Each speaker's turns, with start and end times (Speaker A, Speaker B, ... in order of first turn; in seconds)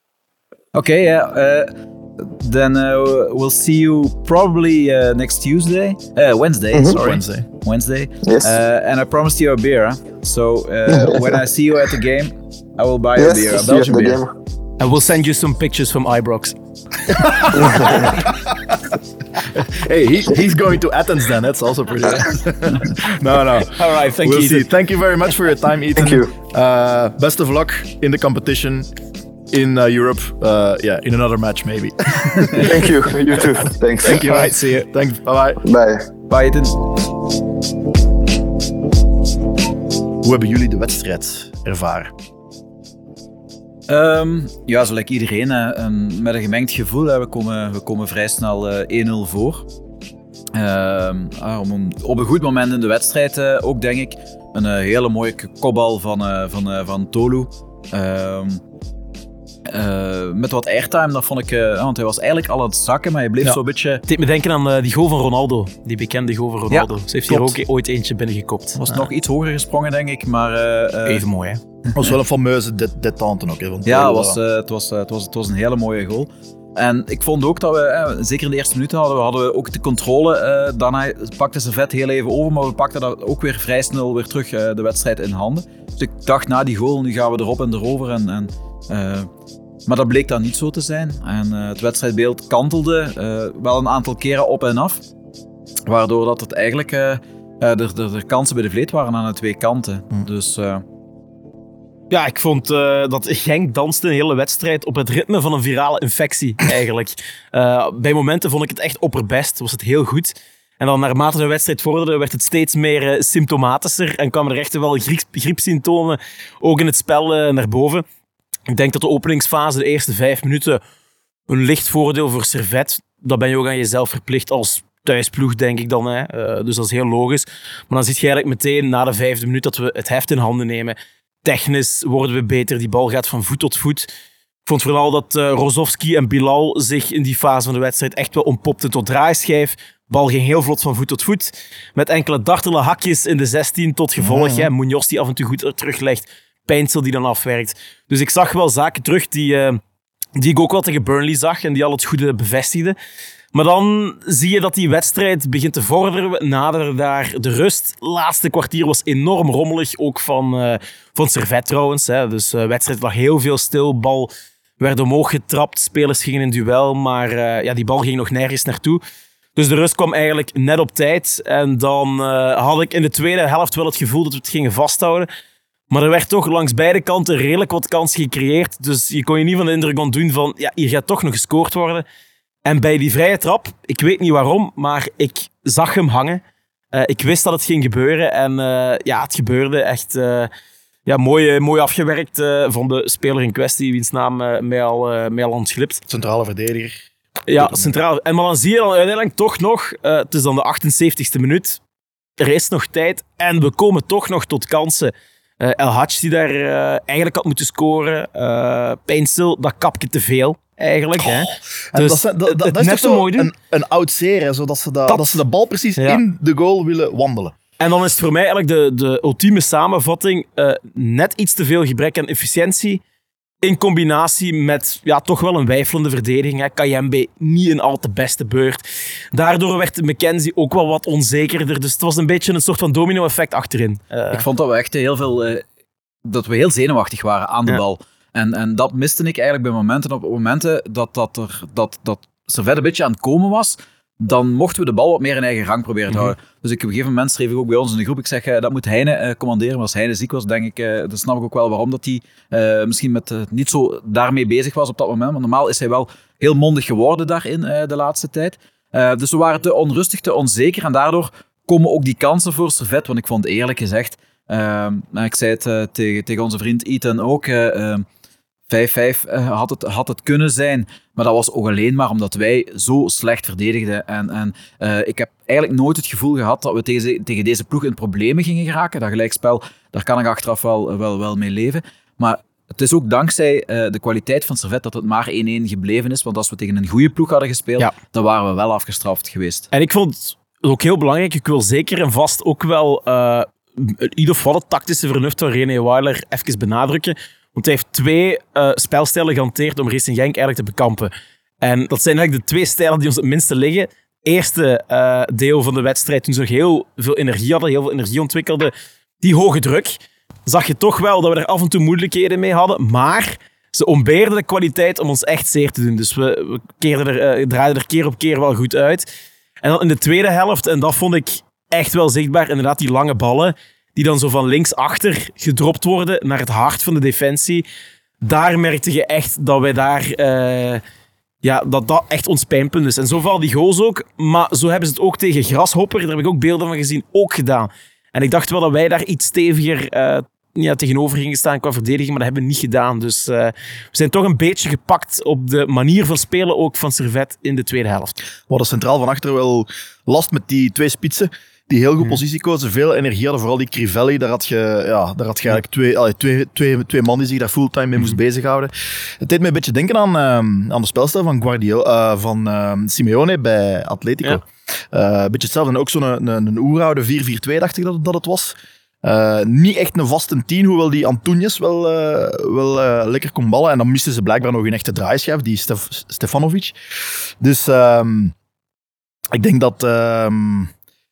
Speaker A: 0.7-14.2, 36.3-36.8, 43.9-49.7, 50.5-58.6, 59.7-64.0, 66.7-67.5, 68.8-71.3, 73.8-89.3, 89.9-95.1, 95.9-100.8, 234.3-235.6, 236.2-268.1, 268.7-289.7
Speaker B: 7.0-7.5, 17.1-18.8, 19.5-28.9, 29.5-32.9, 34.0-35.6, 40.2-42.1, 72.0-74.4, 144.2-144.7, 196.1-197.1, 197.6-198.0, 211.2-217.5, 348.5-378.3, 379.3-380.7
Speaker C: 8.3-8.5, 10.9-11.4, 13.2-14.3, 26.0-26.3, 32.6-34.4, 35.6-36.1
Speaker D: 14.8-16.6, 23.7-24.7, 34.1-34.9, 64.1-68.8, 71.1-71.6, 102.1-118.0, 118.7-120.8, 121.5-134.1, 134.7-149.8, 150.4-153.0, 153.5-169.0, 169.6-175.3, 175.9-182.1, 182.7-190.5, 191.1-196.0, 197.5-201.8, 202.4-213.5, 215.1-215.4, 217.8-223.0, 223.6-234.4, 289.7-319.1, 319.6-327.6, 328.2-330.8, 331.4-348.2